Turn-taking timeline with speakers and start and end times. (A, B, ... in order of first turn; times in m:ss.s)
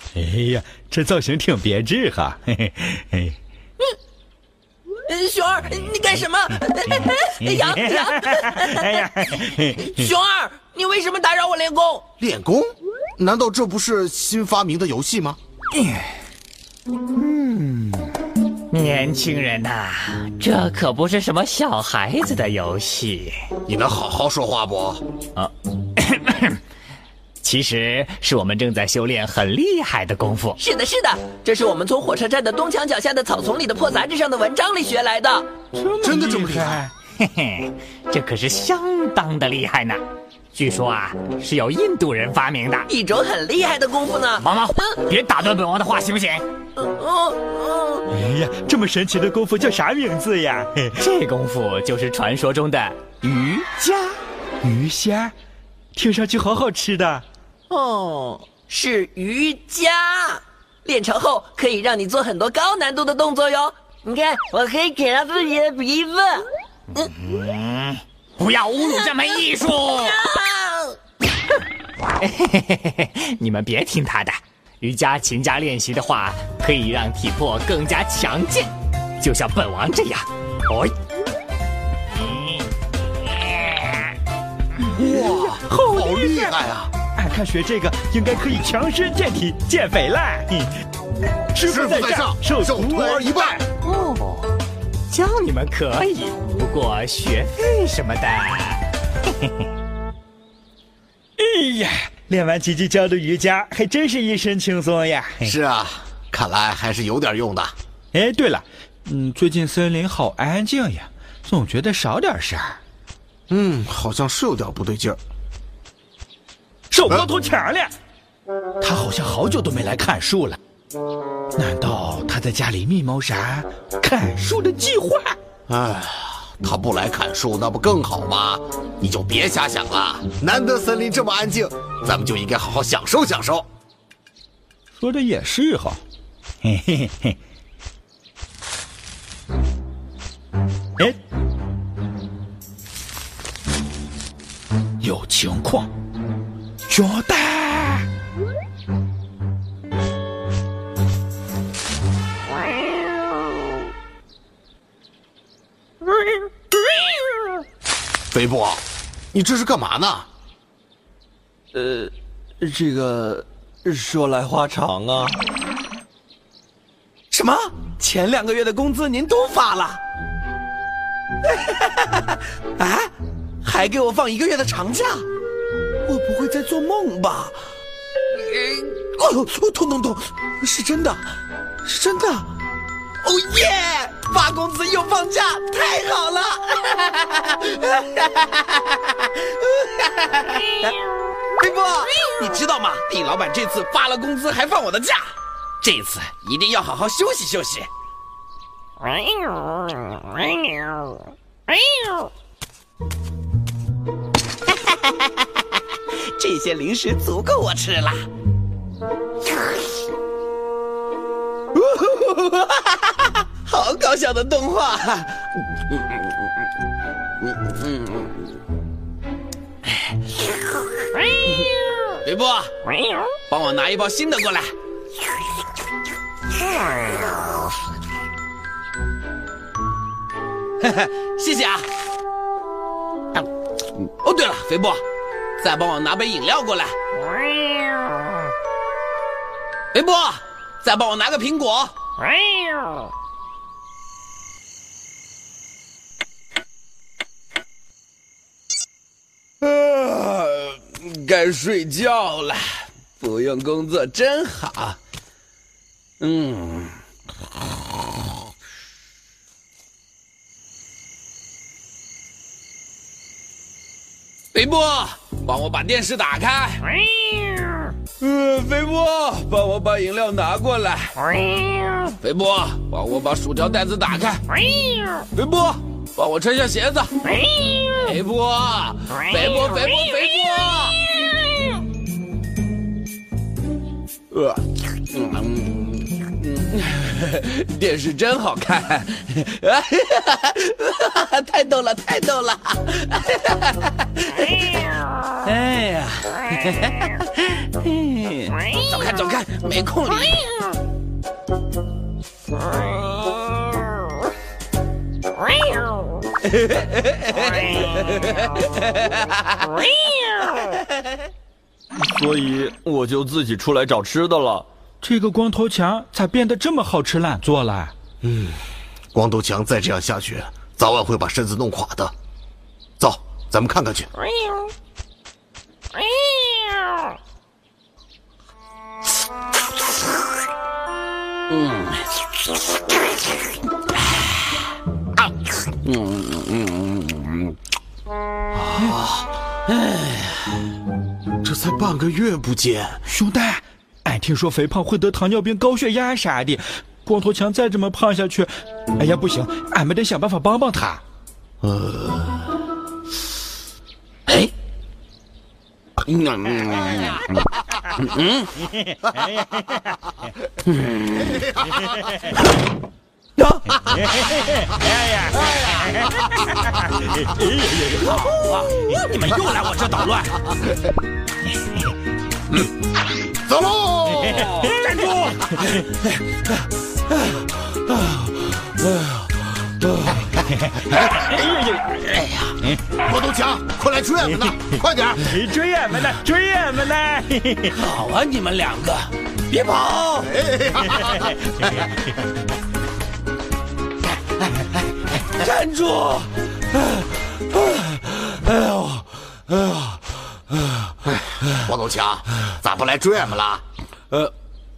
0:00.2-0:03.4 A
0:05.1-0:12.1 B
0:08.3-0:09.8 A
0:12.2-0:15.4 C
0:18.7-0:23.4 D
0:23.7-0:25.0 C
0:25.4-0:26.6 D
0:27.4-0:30.6 D
0:30.6-0:35.5 B
0:35.8-0:36.9 A
0:36.0-0:36.9 C
0:37.2-0:40.0 D
0:40.5-0:42.9 D
0:42.9-0:44.4 B
0:44.4-0:46.4 D
0:46.8-0:48.1 B
0:48.1-0:51.0 A
0:51.0-0:54.0 D
0:54.6-0:55.3 A
0:56.0-0:57.2 A
0:57.8-1:07.1 B
1:07.0-1:10.1 D
1:09.9-1:11.0 B
1:12.2-1:20.9 D
1:24.9-1:26.9 C
1:25.2-1:26.5 A
1:27.2-1:30.7 A
1:31.5-1:33.4 A
1:31.6-1:33.6 C
1:33.9-1:34.5 D
1:35.1-1:38.8 D
1:41.4-1:45.5 A
1:45.4-1:47.7 C
1:48.1-1:52.8 A
1:53.5-1:55.2 C
1:56.9-1:57.9 A
1:58.8-2:00.6 A
2:01.6-2:05.4 A
2:05.7-2:13.7 C
2:14.9-2:16.0 A
2:16.6-2:17.4 A
2:25.0-2:25.9 A
2:26.9-2:28.1 A
2:38.3-2:38.8 C
2:39.3-2:40.3 C
2:41.7-2:45.3 E
2:47.3-2:50.0 E
2:51.4-2:53.1 E
2:53.6-2:55.3 E
2:56.0-2:57.6 E
2:58.3-3:01.2 E
3:01.8-3:02.5 E
3:03.2-3:10.9 E
3:11.6-3:17.9 E
3:26.2-3:28.2 E
3:31.8-3:36.3 E
3:37.4-3:38.3 E
3:42.2-3:42.7 E
3:43.5-3:44.7 E
3:50.8-3:51.9 E
3:54.0-3:55.0 E
3:55.6-3:57.0 E
3:59.9-4:01.9 E
4:09.6-4:15.0 E
4:16.2-4:17.0 E
4:24.5-4:27.0 E
4:28.2-4:31.3 E
4:32.2-4:34.4 E
4:35.3-4:37.2 E
4:37.8-4:41.3 E
4:44.3-5:00.7 E
5:06.6-5:09.4 E
5:12.1-5:14.7 F
5:15.0-5:17.9 A
5:18.2-5:18.6 C
5:19.1-5:22.1 C
5:23.0-5:24.1 C
5:31.5-5:32.0 E
5:35.8-5:37.6 E
5:38.6-5:39.3 C
5:41.4-5:43.0 C
5:43.1-5:51.0 A
5:56.0-5:57.4 E
5:58.0-5:58.5 E
5:58.9-5:59.7 A
6:00.7-6:01.4 E
6:01.3-6:01.8 C
6:03.4-6:03.8 E
6:03.8-6:09.0 A
6:08.1-6:10.7 E
6:13.4-6:14.7 C
6:14.4-6:15.0 A
6:14.7-6:15.5 E
6:19.8-6:20.1 E
6:20.8-6:22.4 A
6:23.0-6:25.3 C
6:25.2-6:27.8 A
6:27.7-6:30.3 E
6:30.2-6:31.8 C
6:35.3-6:40.0 E
6:41.5-6:43.6 C